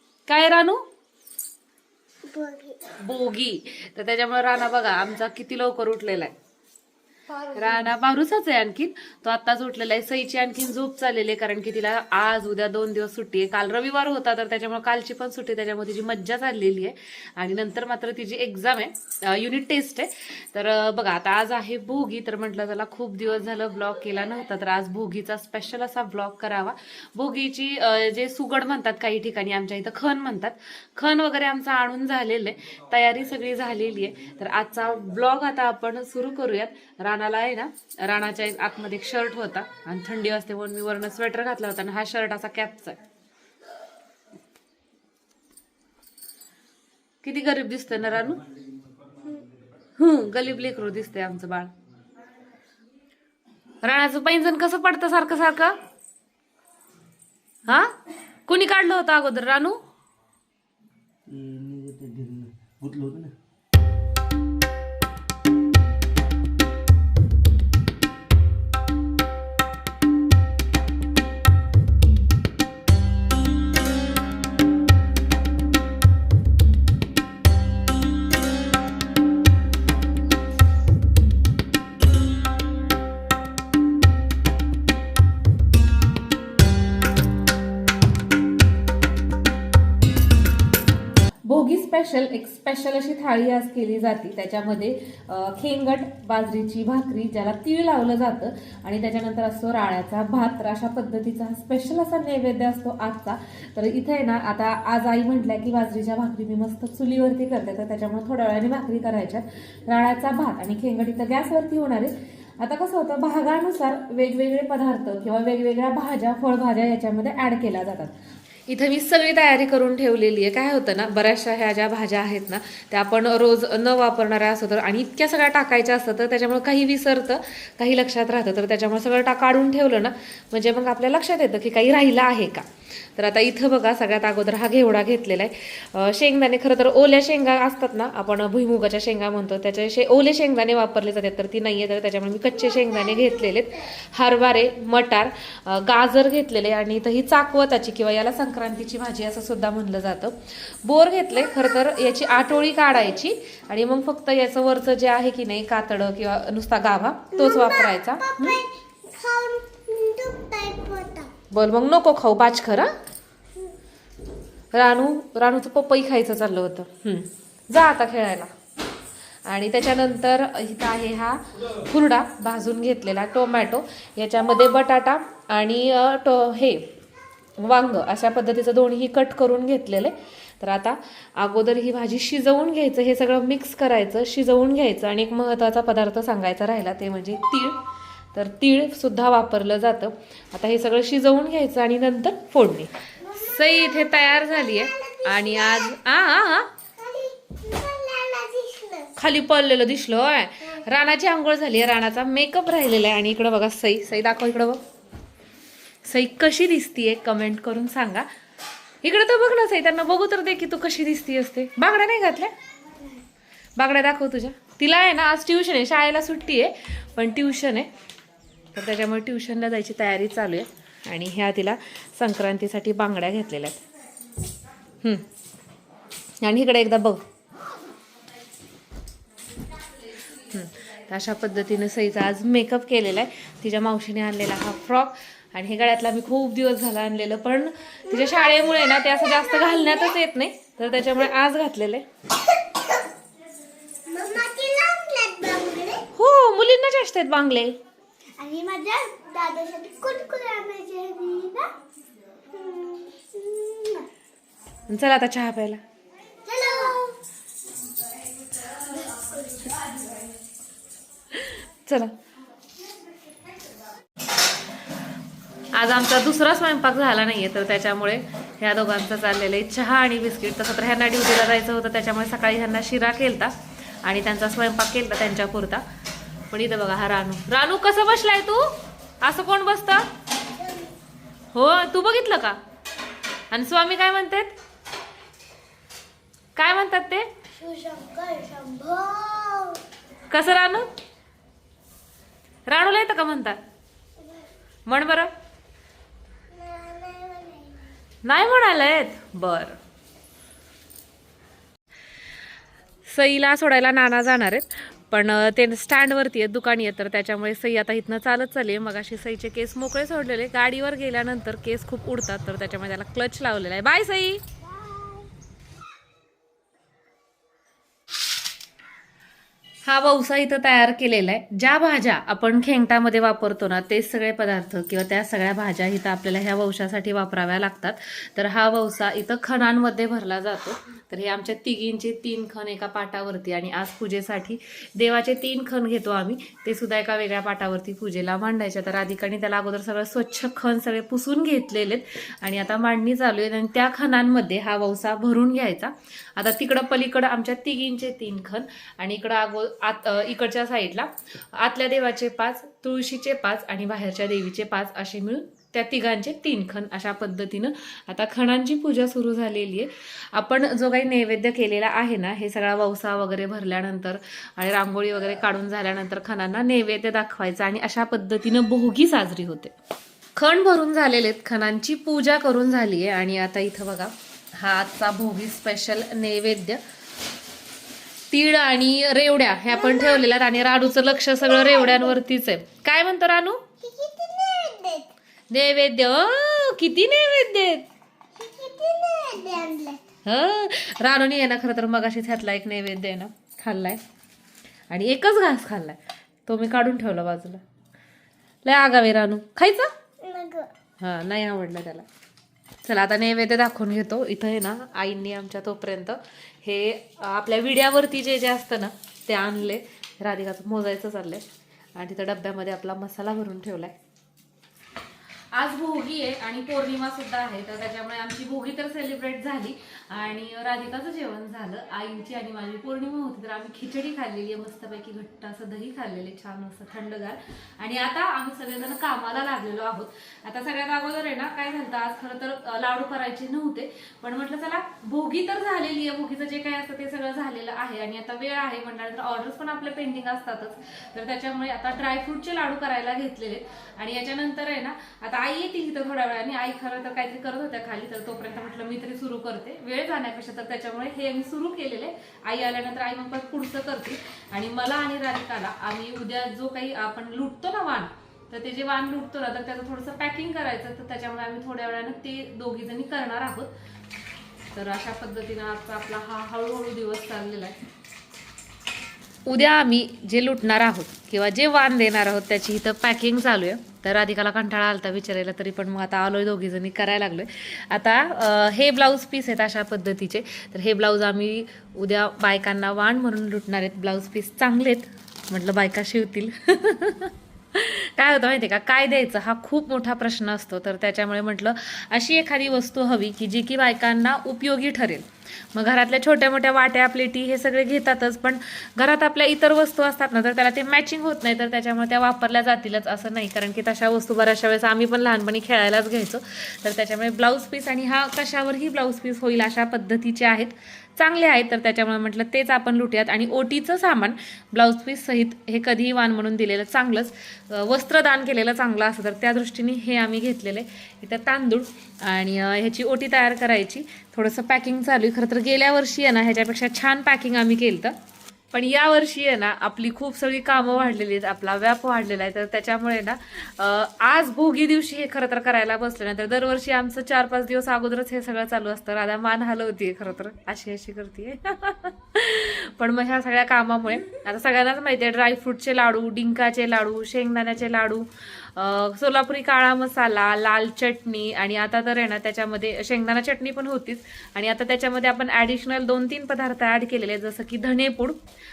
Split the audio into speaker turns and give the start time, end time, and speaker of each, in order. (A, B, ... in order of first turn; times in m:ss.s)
0:00.3-0:00.8 A
0:02.3-0:02.8 B
0:03.0-0:06.3 A
0:07.3-0:07.8 B
0:07.5-0:43.0 A
0:47.2-0:48.4 A
0:50.0-0:51.7 A
0:53.8-0:55.8 A
0:57.7-0:57.9 A
0:58.5-0:59.8 A
1:01.3-1:03.3 C
1:31.4-1:58.1 A
1:58.7-2:38.6 A
2:22.8-2:23.5 B
2:31.5-2:33.0 B
2:37.3-2:41.3 B
2:41.5-2:42.9 A
2:44.7-2:48.5 A
2:49.5-2:56.9 A
2:57.6-3:07.8 A
3:08.3-3:16.7 A
3:13.2-3:16.2 B
3:17.0-3:19.1 B
3:19.2-3:24.8 A
3:26.0-3:28.3 A
3:29.0-3:32.5 A
3:33.8-3:37.9 A
3:38.7-3:43.8 A
3:46.4-3:47.2 A
3:50.4-4:02.0 A
3:58.1-4:00.1 B
4:04.0-4:06.0 B
4:06.1-4:07.8 A
4:08.4-4:11.7 B
4:12.5-4:14.1 B
4:14.9-4:15.8 A
4:16.4-4:17.2 B
4:18.8-4:19.9 B
4:21.3-4:22.1 A
4:25.7-4:35.8 A
4:36.5-4:40.1 A
4:40.4-4:40.9 B
4:41.5-4:42.6 A
4:43.5-4:44.5 A
4:46.6-4:47.3 A
4:47.5-4:49.8 B
4:50.3-4:50.9 A
4:52.7-4:53.6 A
4:54.9-4:55.3 A
4:56.5-4:57.9 B
4:58.2-4:59.8 A
5:03.1-5:14.4 A
5:19.8-6:09.7 A
6:10.4-6:16.8 A
6:18.3-6:23.6 A
6:19.7-6:20.3 B
6:21.1-6:22.2 B
6:23.8-6:25.1 B
6:25.5-6:27.8 A
6:28.4-6:30.0 B
6:30.2-6:34.0 A
6:34.9-6:37.6 A
6:38.6-6:39.9 A
6:40.2-6:40.7 B
6:41.0-6:42.0 A
6:42.8-6:51.4 A
6:52.0-6:53.9 A
6:55.5-7:43.7 A
7:44.7-7:47.8 A
7:49.4-8:48.1 A
8:48.7-9:18.4 A